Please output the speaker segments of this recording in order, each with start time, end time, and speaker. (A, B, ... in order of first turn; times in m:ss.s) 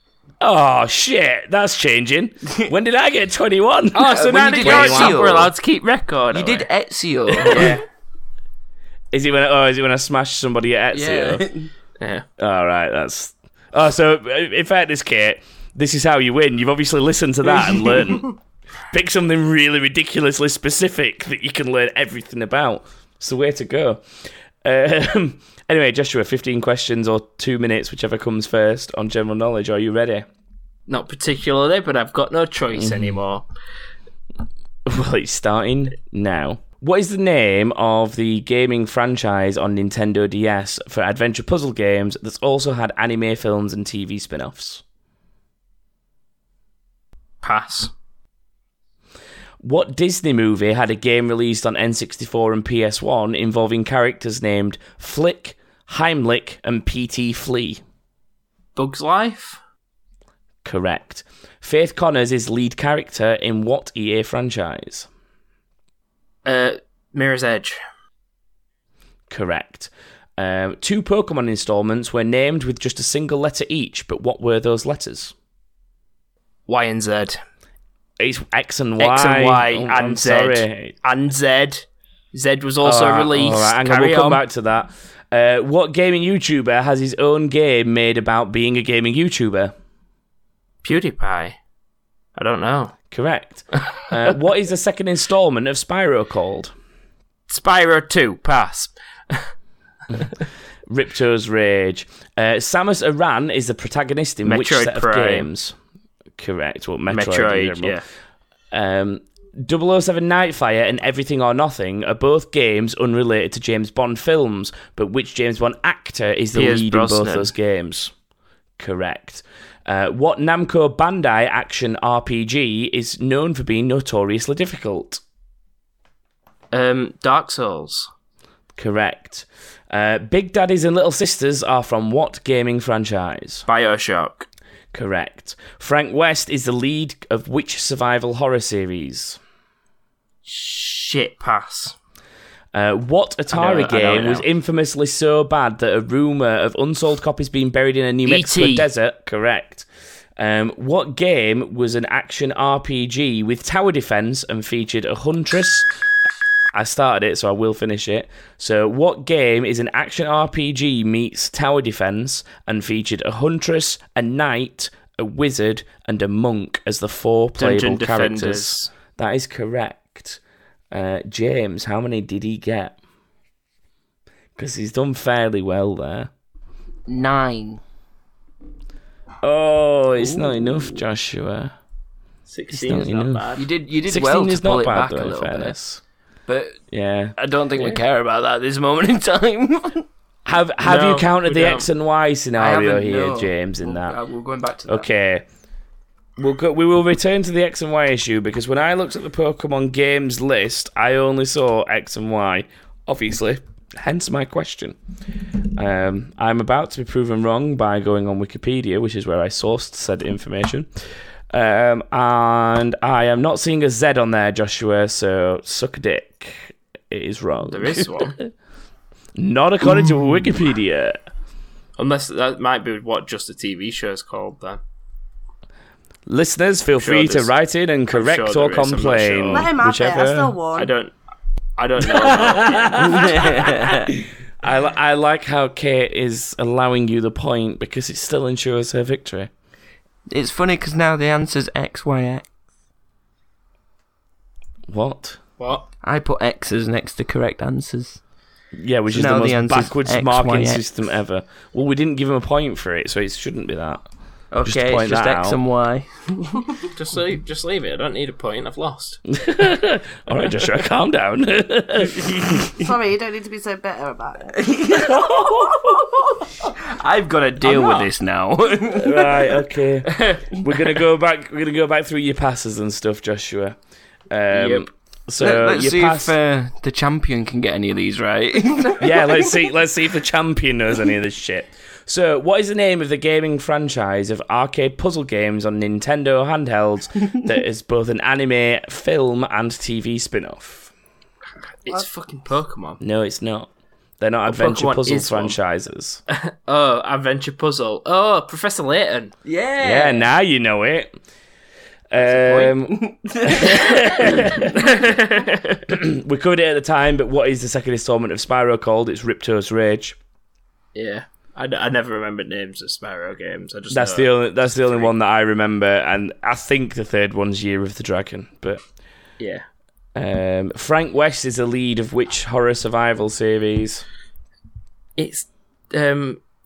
0:00.4-0:05.2 A
0:03.9-0:06.7 B
0:04.0-0:05.5 C
0:06.3-0:07.8 C
0:07.4-0:07.8 A
0:07.4-0:07.8 B
0:09.1-0:11.4 A
0:10.9-0:11.7 C
0:12.0-0:12.2 B
0:12.4-0:18.3 A
0:18.9-0:24.0 A
0:24.6-0:30.3 A
0:30.9-0:33.4 B
0:32.7-0:33.2 A
0:34.8-0:44.8 A
0:47.4-0:47.9 B
0:49.6-0:57.8 A
0:58.8-0:59.6 B
1:00.6-1:05.1 A
1:06.4-1:07.8 B
1:09.3-1:15.3 A
1:16.7-1:17.4 B
1:18.2-1:20.9 A
1:19.0-1:24.4 B
1:22.8-1:29.7 A
1:30.8-1:31.6 B
1:32.4-1:33.0 B
1:33.1-1:36.7 A
1:37.5-1:39.5 B
1:40.9-1:45.7 A
1:44.4-1:45.5 B
1:46.4-1:48.0 A
1:47.1-1:48.0 B
1:48.7-1:58.1 A
1:56.5-1:57.5 B
1:58.8-2:05.2 A
2:06.7-2:08.1 B
2:08.8-2:13.6 A
2:13.7-2:14.5 B
2:14.9-2:19.4 A
2:20.4-2:21.9 B
2:22.7-2:29.9 A
2:23.5-2:24.4 B
2:28.2-2:28.9 B
2:30.4-2:35.9 A
2:36.7-2:50.4 A
2:47.6-2:48.9 B
2:50.9-2:53.0 A
2:54.6-2:56.3 A
2:57.1-2:57.8 C
2:59.4-3:01.7 A
3:00.2-3:00.8 C
3:02.5-3:03.7 B
3:02.7-3:03.5 A
3:03.6-3:05.7 C
3:04.0-3:06.0 A
3:06.5-3:06.8 C
3:06.9-3:07.4 A
3:07.4-3:10.0 C
3:10.4-3:14.2 A
3:10.8-3:11.9 B
3:12.6-3:15.1 C
3:14.9-3:15.4 A
3:16.4-3:25.0 A
3:25.7-3:30.9 A
3:31.5-3:38.3 A
3:37.6-3:38.4 B
3:39.4-3:41.2 A
3:42.0-3:44.8 B
3:46.2-3:50.5 A
3:47.0-3:47.5 B
3:48.1-3:49.7 B
3:49.5-3:50.9 D
3:50.7-3:51.1 B
3:51.8-3:53.5 B
3:52.0-3:59.5 A
3:53.0-3:54.1 C
4:00.3-4:02.4 C
4:04.9-4:05.4 A
4:05.6-4:05.9 B
4:06.0-4:08.2 C
4:08.8-4:14.0 A
4:09.1-4:10.8 C
4:14.5-4:16.7 C
4:14.6-4:15.6 A
4:16.9-4:19.2 B
4:19.3-4:22.7 A
4:22.8-4:24.6 D
4:24.6-4:29.4 C
4:24.9-4:26.0 A
4:27.6-4:28.1 B
4:28.9-4:33.8 A
4:30.1-4:30.4 B
4:34.3-4:36.3 A
4:34.5-4:34.8 B
4:35.4-4:39.5 C
4:39.0-4:50.9 A
4:51.8-4:53.0 B
4:53.0-4:56.2 A
4:54.4-4:55.6 B
4:56.3-4:59.3 B
4:59.4-5:00.3 C
4:59.8-5:01.1 A
5:02.1-5:04.7 A
5:02.2-5:04.6 C
5:04.7-5:05.8 B
5:05.9-5:10.2 A
5:10.9-5:15.1 B
5:13.9-5:18.8 A
5:19.4-5:19.6 B
5:20.1-5:24.0 A
5:25.2-5:26.4 B